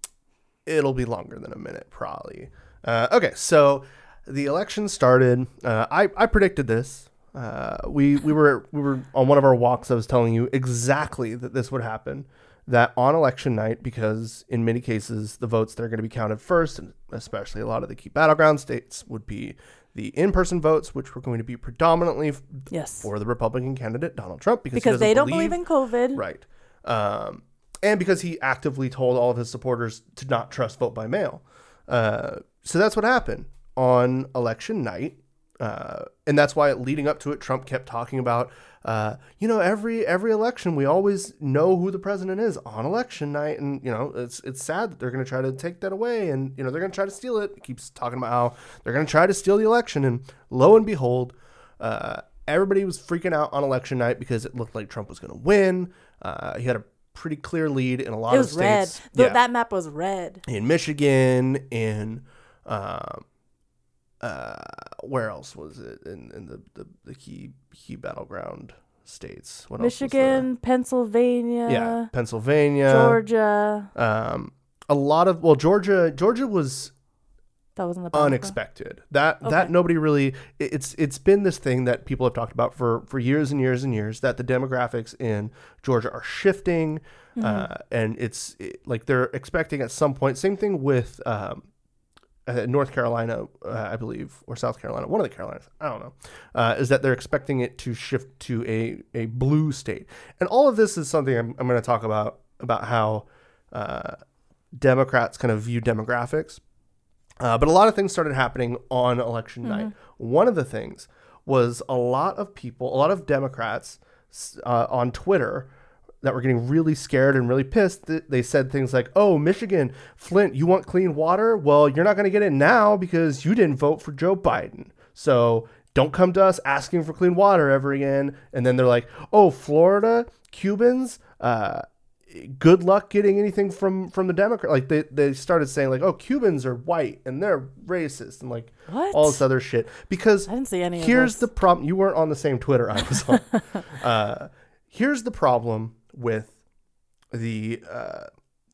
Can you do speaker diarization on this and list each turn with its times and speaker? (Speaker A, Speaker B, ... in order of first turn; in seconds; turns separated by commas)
Speaker A: 0.7-25.6, Speaker B: 22.7-23.1, Speaker B: 24.7-26.2, Speaker A: 26.1-59.4, Speaker B: 58.3-60.4, Speaker A: 60.5-63.2, Speaker A: 64.2-70.5, Speaker B: 69.8-72.1, Speaker A: 71.7-73.2, Speaker B: 72.9-73.9, Speaker A: 73.9-76.9, Speaker B: 77.8-78.6, Speaker A: 78.1-91.7, Speaker B: 79.4-79.7, Speaker B: 87.4-87.7, Speaker A: 92.5-104.2, Speaker A: 104.8-106.6, Speaker A: 107.4-115.7, Speaker B: 109.6-109.9, Speaker A: 116.2-146.5, Speaker B: 138.9-139.4, Speaker B: 140.5-141.5, Speaker A: 147.3-148.3